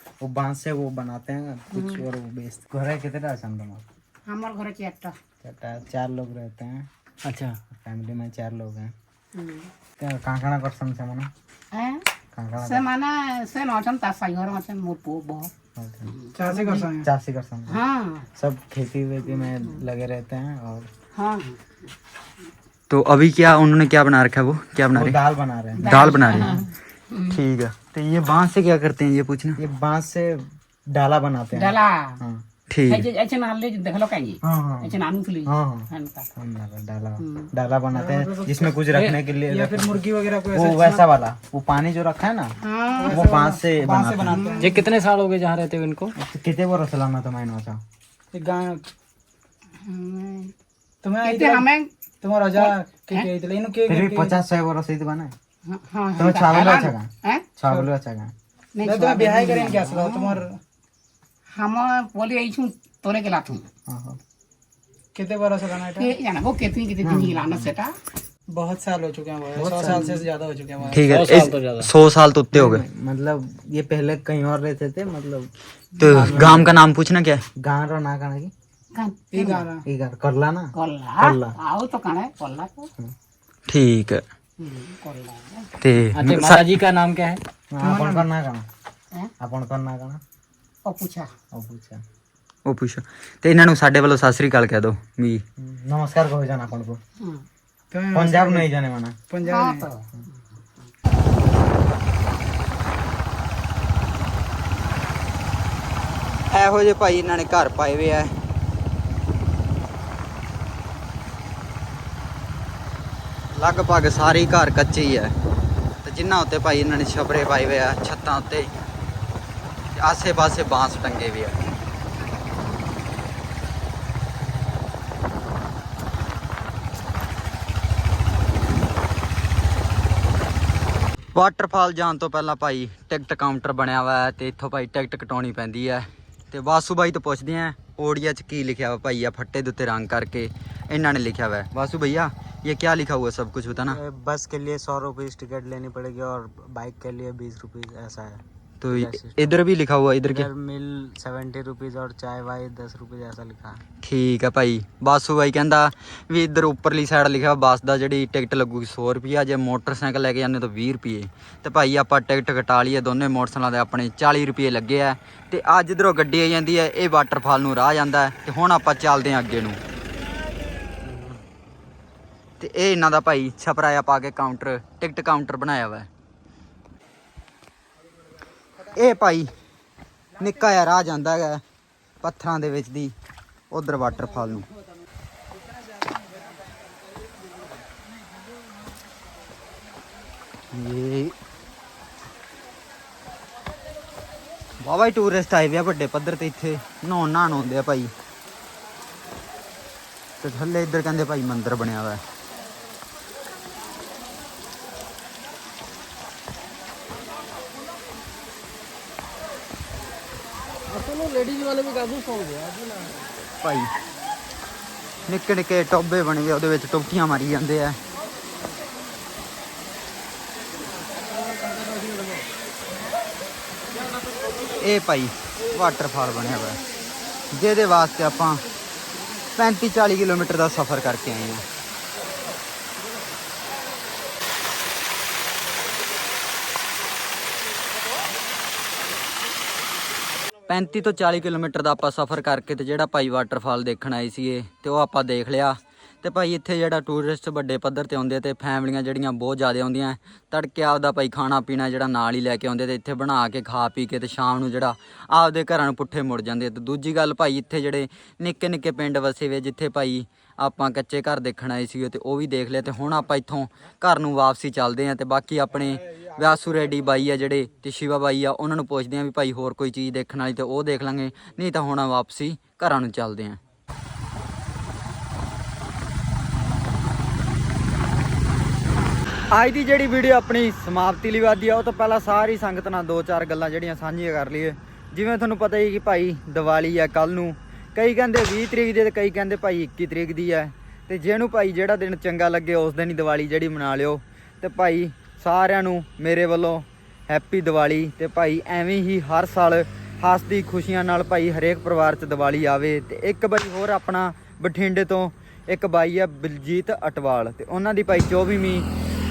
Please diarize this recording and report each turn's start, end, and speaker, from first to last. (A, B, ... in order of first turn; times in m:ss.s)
0:00.2-0:03.8 A
0:01.7-0:02.0 B
0:04.3-0:05.2 B
0:05.4-0:06.9 A
0:07.2-0:07.6 C
0:07.6-0:08.9 A
0:09.3-0:09.7 B
0:10.0-0:11.3 A
0:11.7-0:12.0 B
0:12.3-0:12.8 A
0:12.6-0:15.5 B
0:15.8-0:17.8 A
0:16.1-0:16.4 B
0:16.3-0:17.1 D
0:17.7-0:18.3 B
0:18.4-0:20.9 A
0:19.3-0:19.8 B
0:21.1-0:21.7 B
0:22.9-0:25.2 E
0:24.9-0:26.2 A
0:25.8-0:27.4 B
0:25.9-0:26.6 E
0:27.3-0:29.6 E
0:29.6-0:32.4 A
0:31.6-0:32.2 B
0:32.7-0:33.0 E
0:32.9-0:36.3 B
0:34.4-0:35.0 A
0:35.5-0:42.6 A
0:37.2-0:37.5 B
0:37.9-0:41.0 D
0:42.6-0:43.3 B
0:43.0-0:44.9 D
0:43.1-0:44.5 A
0:44.3-0:44.7 B
0:44.6-0:46.1 C
0:46.2-0:47.8 A
0:48.3-0:48.8 D
0:49.8-0:50.5 B
0:51.0-0:51.7 D
0:51.2-0:51.9 B
0:52.2-0:54.4 D
0:52.6-0:53.3 B
0:53.9-0:55.3 A
0:55.6-0:57.4 B
0:56.2-0:57.1 A
0:57.6-0:58.3 A
0:58.8-1:00.4 B
0:58.8-1:00.6 D
1:01.5-1:03.7 B
1:03.9-1:04.2 A
1:05.2-1:06.2 D
1:06.0-1:08.0 B
1:07.0-1:07.7 A
1:08.5-1:11.2 D
1:09.6-1:10.2 A
1:10.9-1:12.8 E
1:11.1-1:11.9 C
1:12.5-1:15.5 A
1:16.0-1:17.4 E
1:16.1-1:16.6 D
1:16.1-1:16.7 A
1:17.6-1:18.5 A
1:18.9-1:19.7 B
1:19.3-1:19.8 D
1:19.9-1:21.6 A
1:20.8-1:22.9 B
1:23.7-1:24.2 E
1:24.6-1:25.7 B
1:25.8-1:26.7 E
1:26.2-1:27.4 C
1:27.7-1:28.7 A
1:27.8-1:28.3 D
1:29.4-1:30.2 A
1:30.8-1:31.3 B
1:31.5-1:32.0 A
1:32.7-1:35.4 E
1:35.6-1:37.0 A
1:37.2-1:37.4 B
1:37.9-1:38.7 D
1:38.1-1:39.2 A
1:39.3-1:39.9 D
1:39.5-1:40.1 B
1:46.5-1:48.3 E
1:53.6-1:55.3 E
1:56.0-1:58.7 E
2:00.0-2:01.6 E
2:11.3-2:24.0 E
2:23.8-2:29.5 A
2:28.8-2:30.5 E
2:30.2-2:33.8 A
2:34.0-2:49.8 E
2:52.6-2:56.1 E
2:58.9-2:59.5 E
3:00.4-3:01.6 E
3:02.2-3:03.2 E
3:03.7-3:04.7 E
3:10.7-3:11.4 E
3:14.8-3:18.1 E
3:20.4-3:22.2 E
3:31.4-3:32.4 C
3:33.4-3:33.9 E
3:35.3-3:38.0 E
3:44.8-3:46.8 E
3:47.5-3:48.6 E
3:49.6-3:51.7 E
4:00.7-4:33.6 E
4:39.5-5:08.9 E